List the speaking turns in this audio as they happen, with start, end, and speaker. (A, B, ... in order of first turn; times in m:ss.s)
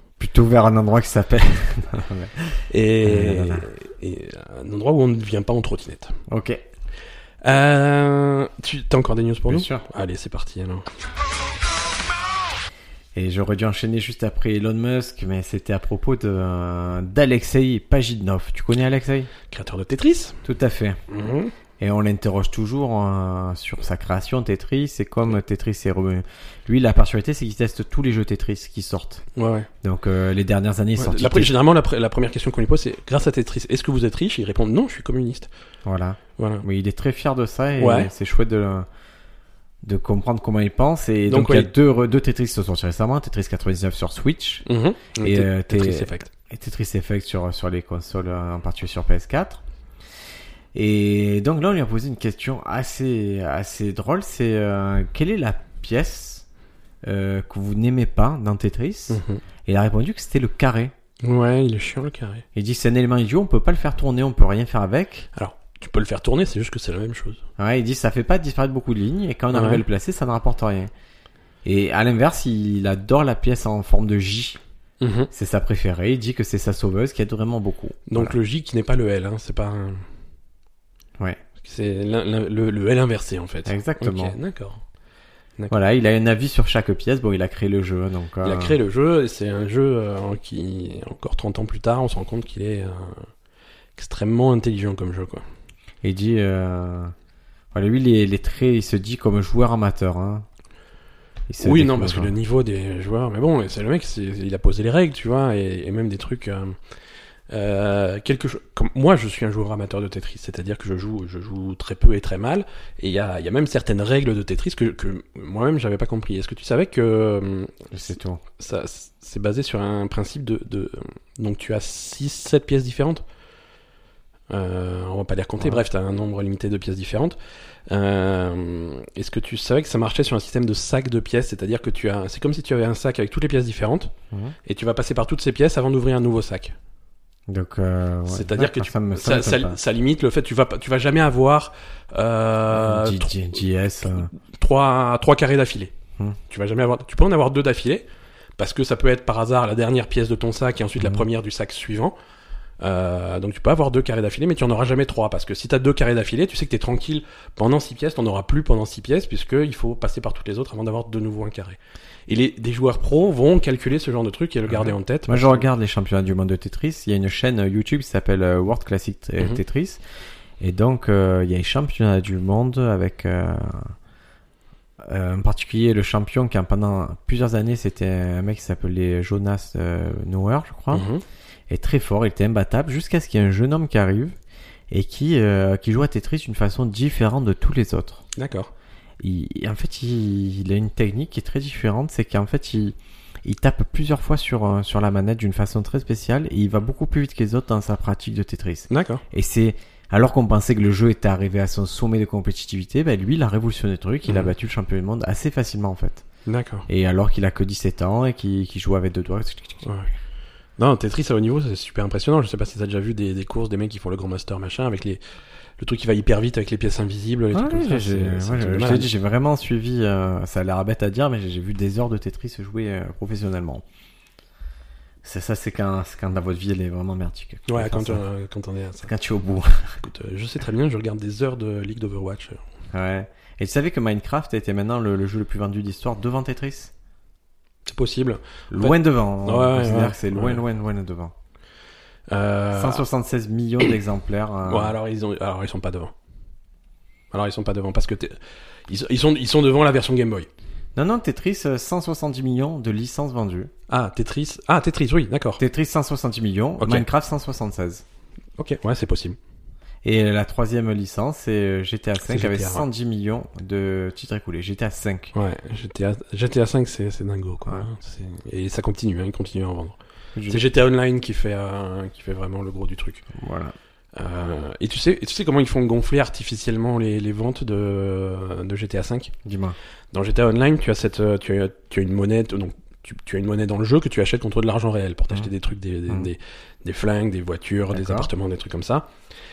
0:00.2-0:03.7 A
0:02.7-0:06.2 B
0:06.3-0:06.6 A
0:07.4-0:10.9 B
0:09.5-0:09.8 A
0:13.2-0:19.3 A
0:19.5-0:20.4 B
0:20.4-0:21.0 A
0:21.1-0:21.5 B
0:21.8-0:29.2 A
0:29.4-0:29.7 B
0:29.8-0:31.5 A
0:31.0-0:35.5 B
0:35.8-0:38.9 A
0:36.4-0:36.6 B
0:37.8-0:38.1 B
0:39.8-0:44.6 A
0:41.3-0:41.7 B
0:44.7-0:46.3 B
0:45.2-0:49.6 A
0:50.7-0:56.5 A
0:57.0-1:00.9 A
0:59.1-0:59.4 B
1:01.2-1:02.4 B
1:02.6-1:05.3 A
1:05.3-1:07.4 B
1:07.6-1:10.9 A
1:09.5-1:09.8 B
1:11.6-1:14.6 A
1:15.0-1:15.3 B
1:15.3-1:18.3 A
1:18.1-1:20.0 B
1:21.6-1:24.8 B
1:23.7-1:24.4 A
1:25.7-1:28.8 A
1:28.4-1:33.3 B
1:34.0-1:35.4 B
1:36.0-1:37.1 A
1:37.7-1:40.5 A
1:41.5-1:42.3 A
1:41.6-1:46.8 B
1:47.5-1:57.9 B
1:57.9-1:58.4 A
1:58.6-2:03.2 B
2:04.5-2:07.4 B
2:07.9-2:14.1 B
2:14.6-2:16.8 B
2:17.5-2:19.8 A
2:18.3-2:23.6 B
2:22.7-2:24.3 A
2:24.3-2:25.9 B
2:26.5-2:28.1 B
2:28.6-2:32.2 B
2:31.0-2:31.2 A
2:32.8-2:45.7 B
2:44.7-2:50.0 A
2:50.6-2:54.0 A
2:55.0-3:01.1 A
3:00.9-3:01.2 B
3:01.7-3:04.4 A
3:04.9-3:08.2 A
3:08.4-3:08.7 B
3:09.2-3:26.2 A
3:18.9-3:19.2 B
3:26.5-3:26.9 B
3:26.9-3:30.0 A
3:29.8-3:30.1 B
3:30.8-3:35.2 B
3:35.8-3:39.1 B
3:37.5-3:43.8 A
3:45.2-3:48.2 A
3:47.7-3:49.1 B
3:49.0-3:50.0 A
3:50.0-3:52.6 B
3:52.9-3:56.9 A
3:57.9-4:00.6 B
3:58.7-4:01.3 A
4:02.3-4:03.0 B
4:02.7-4:05.0 A
4:04.7-4:06.1 B
4:07.3-4:08.4 B
4:08.9-4:10.5 B
4:11.0-4:13.7 A
4:13.9-4:15.6 B
4:15.6-4:18.0 A
4:16.8-4:17.1 B
4:18.6-4:19.4 B
4:20.0-4:25.3 A
4:22.2-4:22.9 B
4:25.3-4:30.0 B
4:30.4-4:30.6 A
4:30.5-4:33.3 B
4:33.3-4:33.8 A
4:34.2-4:39.3 B
4:39.4-4:39.8 A
4:40.1-4:49.1 B
4:47.9-4:48.3 A